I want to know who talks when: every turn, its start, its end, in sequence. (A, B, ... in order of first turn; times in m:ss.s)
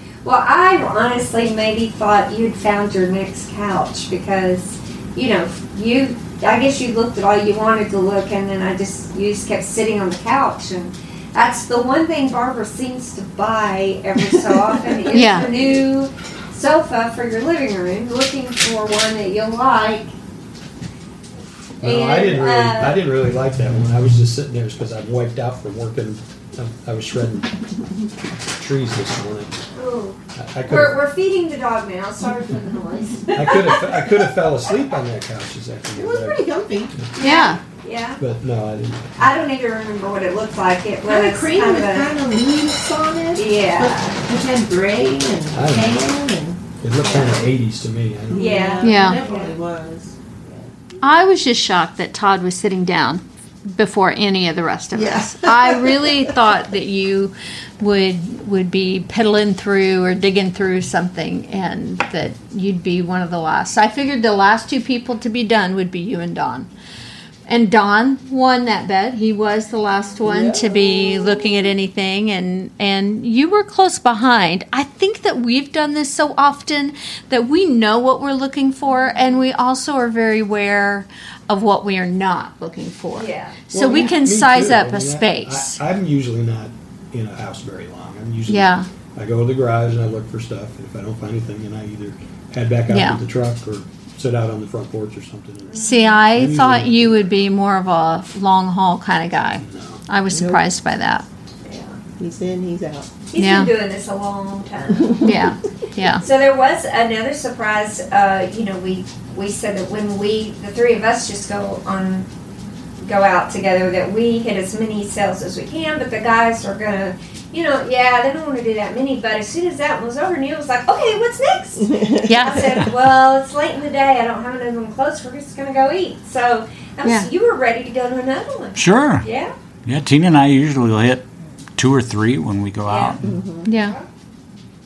0:00.2-0:20.1 A
0:15.1-0:15.5 B
0:21.8-0:23.0 A
0:21.8-0:27.6 C
0:28.6-0:29.5 C
0:29.8-0:34.3 A
0:30.4-0:31.0 C
0:33.3-0:36.4 C
0:36.0-0:36.9 D
0:37.2-0:38.2 A
0:37.2-0:37.6 B
0:38.2-0:39.2 C
0:39.2-0:42.1 A
0:41.1-0:46.6 D
0:43.4-0:44.2 A
0:45.5-0:46.0 C
0:46.8-0:48.8 C
0:47.0-0:47.5 A
0:48.3-0:50.7 D
0:48.3-0:49.6 A
0:48.8-0:49.2 B
0:51.0-1:06.7 B
0:54.9-0:56.2 D
1:07.5-1:25.8 B
1:10.2-1:11.4 D
1:18.9-1:19.2 A
1:23.1-1:23.6 A
1:23.7-1:37.1 C
1:28.5-1:28.9 B
1:32.9-1:33.2 B
1:35.7-1:36.3 A
1:35.8-1:41.2 B
1:39.5-1:40.0 C
1:40.3-1:40.6 D
1:41.6-1:42.0 A
1:42.2-1:43.1 D
1:43.3-1:45.2 A
1:43.4-1:43.7 B
1:45.0-1:45.3 D
1:45.2-1:46.2 B
1:46.2-1:52.3 A
1:53.0-2:09.5 A
2:02.2-2:02.7 B
2:08.8-2:09.3 E
2:09.8-2:11.2 E
2:11.8-2:13.2 E
2:12.8-2:14.1 A
2:13.2-2:13.7 D
2:13.7-2:14.0 B